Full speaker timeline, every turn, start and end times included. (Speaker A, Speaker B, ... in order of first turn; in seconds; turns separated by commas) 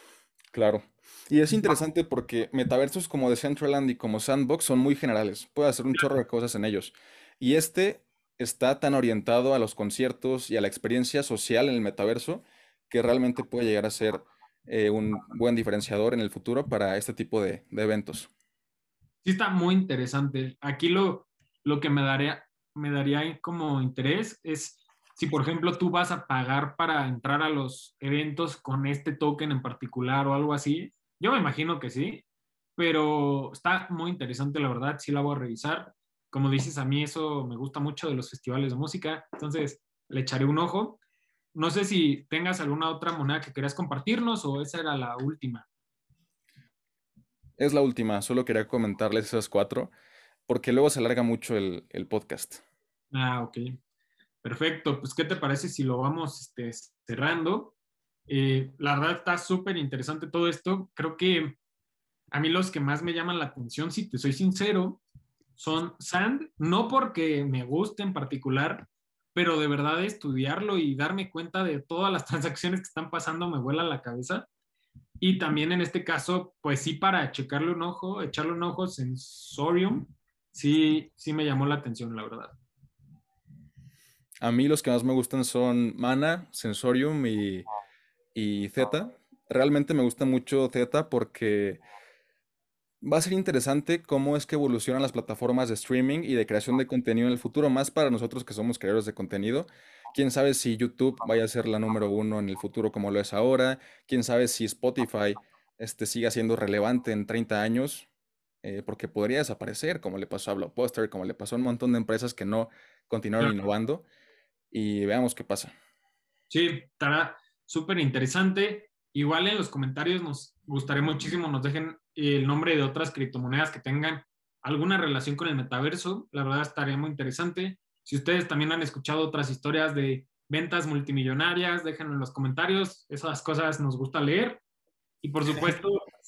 Speaker A: 0.5-18.3, Speaker B: 19.2-32.2, Speaker B: 32.8-41.0, Speaker B: 41.5-45.7, Speaker A: 47.6-49.9, Speaker A: 50.5-52.6, Speaker B: 53.1-53.8, Speaker B: 54.4-57.8, Speaker B: 58.3-61.6, Speaker B: 62.3-65.0, Speaker B: 65.6-74.5, Speaker B: 75.2-82.5, Speaker A: 84.4-87.7, Speaker A: 88.3-91.8, Speaker A: 93.0-108.1, Speaker A: 108.6-114.0, Speaker A: 114.7-115.7, Speaker B: 116.5-134.6, Speaker B: 135.2-136.1